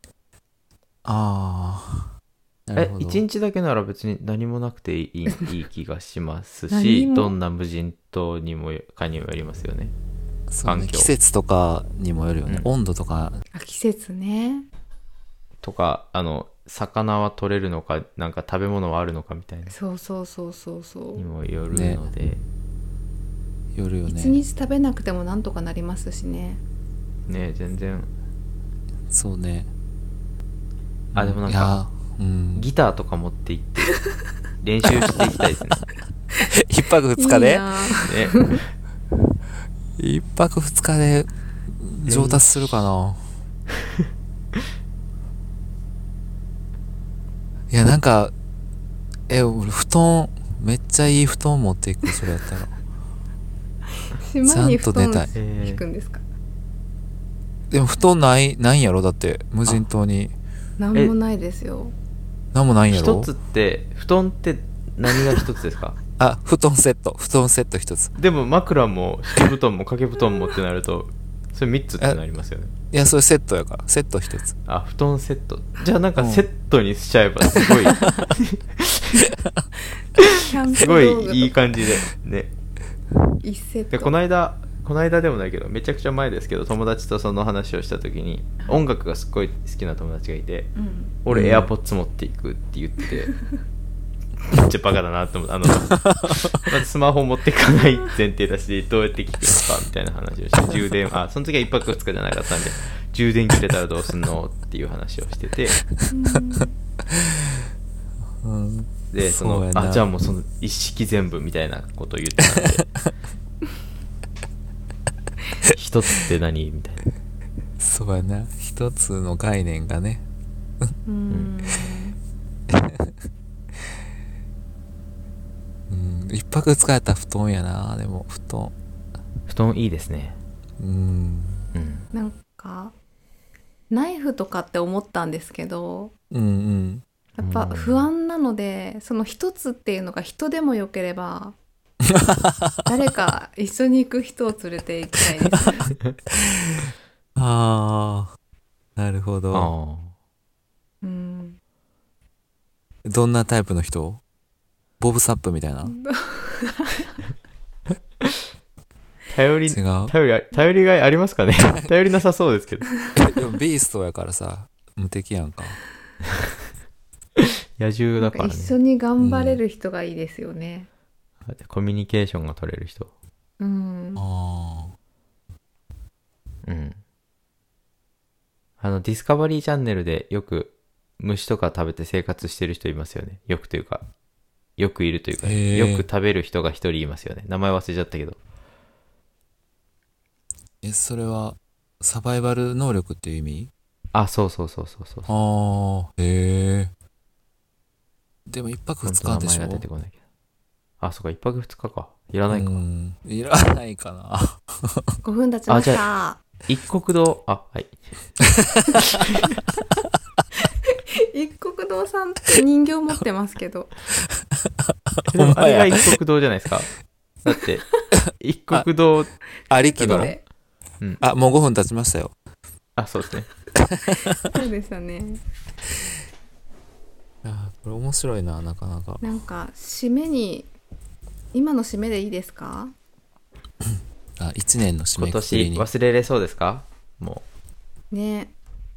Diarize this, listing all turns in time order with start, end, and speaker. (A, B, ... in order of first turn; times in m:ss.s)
0:01.0-0:02.1 A
0:02.7-0:03.2 A
0:02.8-0:09.9 B
0:06.7-0:07.4 C
0:10.5-0:13.4 A
0:10.6-0:11.1 B
0:13.5-0:14.7 C
0:15.6-0:19.7 B
0:19.7-0:21.3 C
0:21.2-0:22.4 B
0:21.7-0:22.0 A
0:23.8-0:24.4 A
0:24.1-0:26.6 C
0:27.3-0:28.1 B
0:29.1-0:29.7 A
0:31.1-0:31.8 B
0:31.1-0:32.7 A
0:32.6-0:34.0 B
0:34.6-0:35.9 B
0:35.0-0:35.4 A
0:36.5-0:37.9 A
0:37.2-0:38.6 C
0:38.0-0:38.7 B
0:40.0-0:43.2 A
0:42.1-0:42.6 B
0:47.7-0:48.3 A
0:49.3-0:52.7 A
0:54.1-0:56.2 C
0:54.4-0:55.3 A
0:55.4-0:55.8 B
0:57.7-1:00.3 A
1:00.8-1:02.0 C
1:02.5-1:03.3 A
1:02.9-1:06.0 B
1:06.2-1:08.1 A
1:08.2-1:12.7 B
1:12.9-1:14.6 A
1:14.7-1:19.3 B
1:16.2-1:16.5 A
1:19.3-1:19.6 A
1:20.2-1:22.5 B
1:20.4-1:21.6 C
1:23.4-1:24.1 C
1:23.9-1:33.4 B
1:30.8-1:31.1 C
1:31.3-1:31.7 A
1:34.5-1:45.8 B
1:36.0-1:36.4 A
1:46.1-1:46.8 C
1:47.1-1:47.6 A
1:48.4-1:50.1 A
1:49.1-1:52.9 B
1:55.7-1:57.0 B
1:57.8-2:00.2 A
2:01.1-2:02.2 C
2:02.7-2:03.2 A
2:05.9-2:08.8 A
2:09.5-2:10.4 B
2:10.8-2:11.7 A
2:11.7-2:12.1 B
2:12.1-2:12.9 C
2:13.9-2:16.1 C
2:16.3-2:17.0 A
2:17.4-2:21.6 C
2:17.4-2:18.1 B
2:22.0-2:22.8 A
2:22.9-2:25.9 C
2:27.4-2:28.3 A
2:29.0-2:29.7 A
2:29.5-2:30.1 B
2:31.0-2:31.6 C
2:33.0-2:34.2 A
2:35.0-2:36.0 A
2:35.8-2:37.2 C
2:39.3-2:42.9 B
2:39.7-2:40.1 A
2:43.2-2:45.8 A
2:47.4-2:48.8 B
2:48.2-2:50.9 C
2:49.2-2:49.6 A
2:51.5-2:53.1 B
2:53.6-2:54.2 C
2:54.2-2:54.9 A
2:56.6-2:57.0 B
2:58.8-3:04.1 B
3:04.8-3:08.4 B
3:05.4-3:06.1 A
3:10.8-3:13.7 A
3:14.1-3:15.3 B
3:15.3-3:16.9 A
3:18.5-3:19.9 A
3:19.0-3:20.2 B
3:21.0-3:22.8 B
3:22.5-3:25.2 A
3:25.2-3:26.4 C
3:25.7-3:26.0 B
3:26.7-3:28.0 B
3:28.7-3:29.0 A
3:29.2-3:29.6 B
3:30.9-3:33.9 C
3:34.4-3:36.2 A
3:35.3-3:39.3 B
3:39.7-3:40.4 A
3:39.7-3:40.4 C
3:40.0-3:40.3 B
3:41.2-3:42.3 A
3:43.0-3:43.5 B
3:43.8-3:44.5 A
3:44.4-3:45.4 C
3:47.4-3:49.2 A
3:49.2-3:50.7 C
3:51.5-3:52.9 C
3:53.8-3:55.9 A
3:55.2-3:57.4 B
3:58.1-3:58.5 C